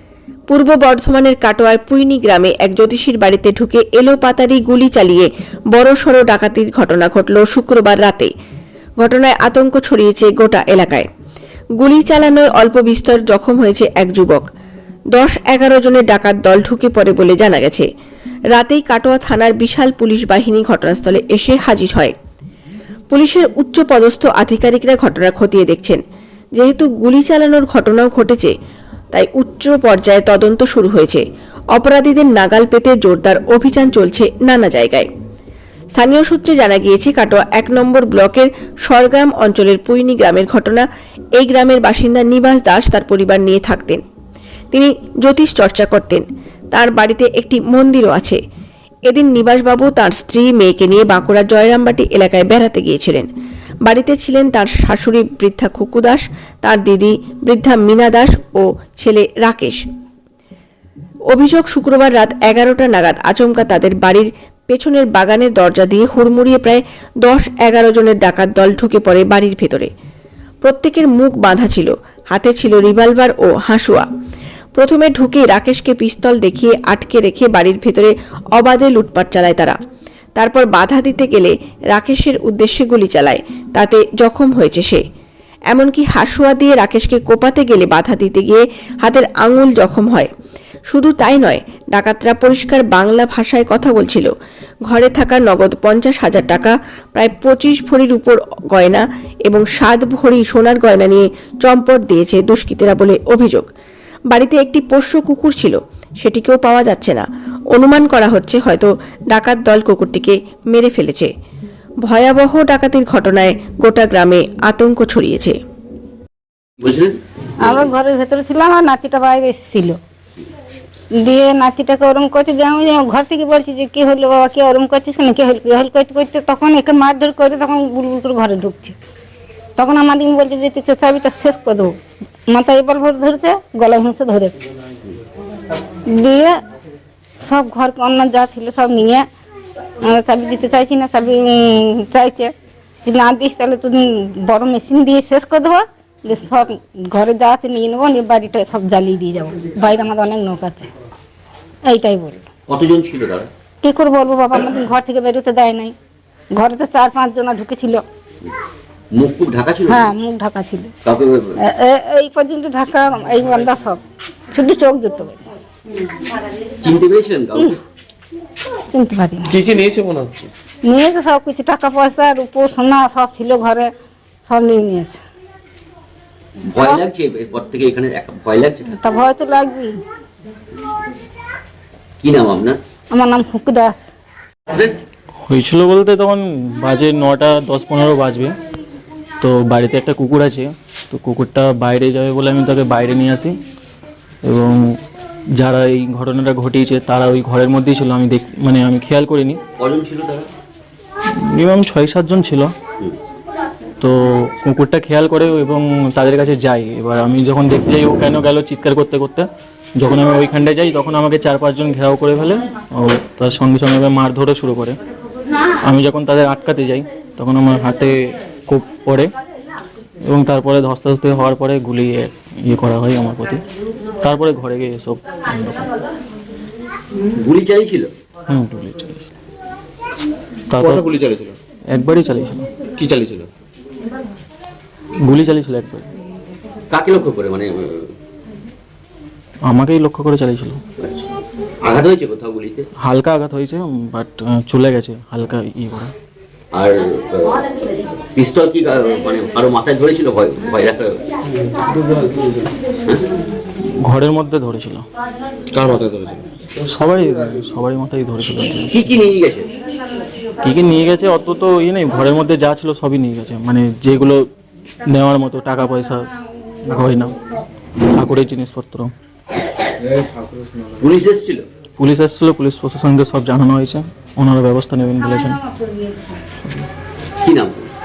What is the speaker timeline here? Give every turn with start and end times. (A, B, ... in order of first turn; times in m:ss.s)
0:00.5-0:08.3 A
0:09.0-0:11.1 A
0:11.8-0:14.4 A
0:15.1-0:17.9 A
0:18.5-0:22.1 A
0:23.1-0:26.0 A
0:26.6-0:28.5 A
0:29.1-0:31.2 A
0:31.7-0:35.1 A
0:35.9-0:40.9 A
0:41.4-0:44.0 A
0:44.7-0:48.4 A
0:49.1-0:53.3 A
0:53.8-0:59.8 A
1:01.3-1:09.9 A
1:10.6-1:14.0 A
1:14.8-1:19.8 A
1:20.3-1:25.0 A
1:25.7-1:30.3 A
1:30.9-1:34.3 A
1:34.9-1:43.7 A
1:44.3-1:51.3 A
1:52.0-1:55.6 A
1:56.8-1:57.8 B
1:57.6-2:00.0 C
2:01.2-2:09.0 C
2:09.8-2:12.0 C
2:12.5-2:14.6 C
2:16.1-2:16.6 C
2:17.4-2:19.2 C
2:20.0-2:22.5 C
2:23.0-2:30.9 C
2:31.9-2:32.4 C
2:32.7-2:33.5 B
2:33.8-2:35.9 C
2:36.5-2:38.0 C
2:39.1-2:40.1 B
2:39.9-2:40.9 C
2:41.0-2:41.6 B
2:41.7-2:45.5 C
2:46.8-2:47.8 B
2:48.9-2:49.4 C
2:49.5-2:50.5 D
2:50.8-2:53.9 C
2:54.5-2:55.2 C
2:56.7-2:59.0 B
2:59.0-3:00.0 C
3:02.2-3:02.8 B
3:03.1-3:04.1 C
3:05.5-3:08.5 E
3:09.4-3:13.5 E
3:14.4-3:15.0 E
3:15.6-3:19.6 E
3:19.8-3:20.5 B
3:21.3-3:22.7 E
3:24.0-3:35.0 E
3:35.8-3:39.3 E
3:40.3-3:43.6 E
3:44.2-3:45.9 E
3:47.4-3:48.1 B
3:48.5-3:49.3 E
3:50.7-3:51.1 E
3:50.8-3:51.6 D
3:51.9-3:52.6 E
3:53.0-3:53.5 D
3:55.2-3:56.1 E
3:56.9-3:58.1 B
3:59.6-4:00.8 E
4:01.0-4:01.3 B
4:01.8-4:02.8 B
4:03.0-4:06.1 E
4:06.7-4:07.6 B
4:08.3-4:11.2 B
4:14.0-4:15.0 E
4:15.7-4:16.4 D
4:16.8-4:19.1 E
4:18.9-4:19.7 B
4:20.6-4:24.4 E
4:25.1-4:26.3 E
4:26.8-4:27.3 E
4:28.0-4:29.1 E
4:31.0-4:31.6 B
4:32.0-4:35.6 E
4:35.8-4:36.4 C
4:37.4-4:37.9 B